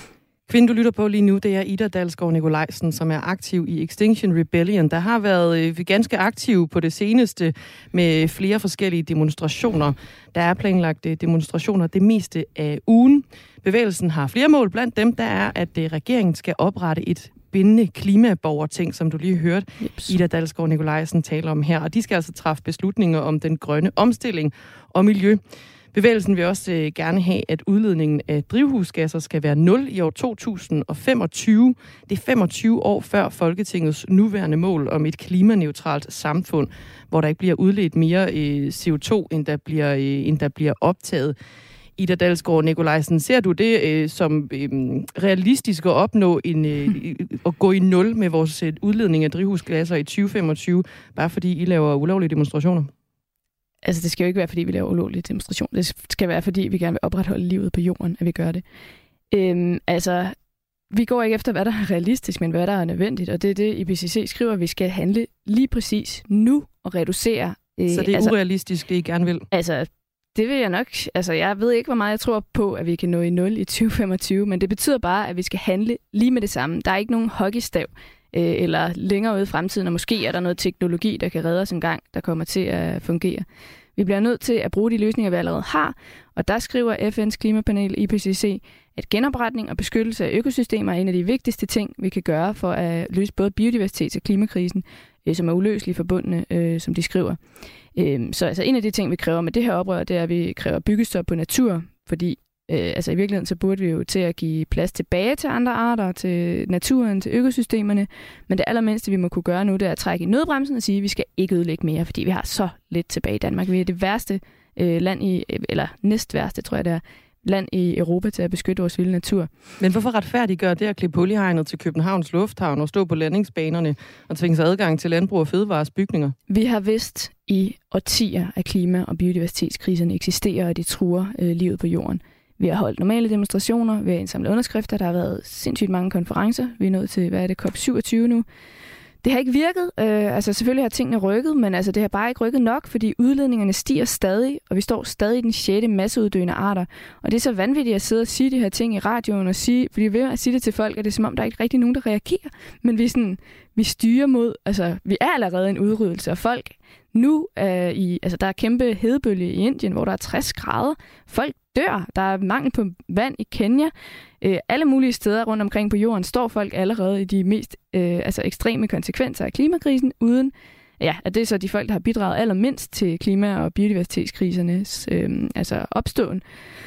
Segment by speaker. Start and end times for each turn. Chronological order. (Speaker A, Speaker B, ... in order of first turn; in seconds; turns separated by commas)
Speaker A: 0.5-25.4, Speaker B: 19.8-20.2, Speaker A: 25.9-41.4, Speaker A: 42.0-52.9, Speaker B: 53.8-58.6, Speaker B: 59.3-60.4, Speaker B: 60.9-68.3, Speaker A: 67.9-69.5, Speaker B: 69.5-83.5, Speaker B: 84.0-97.4, Speaker B: 98.0-119.5, Speaker A: 119.8-126.3, Speaker B: 126.5-138.5, Speaker B: 139.2-176.4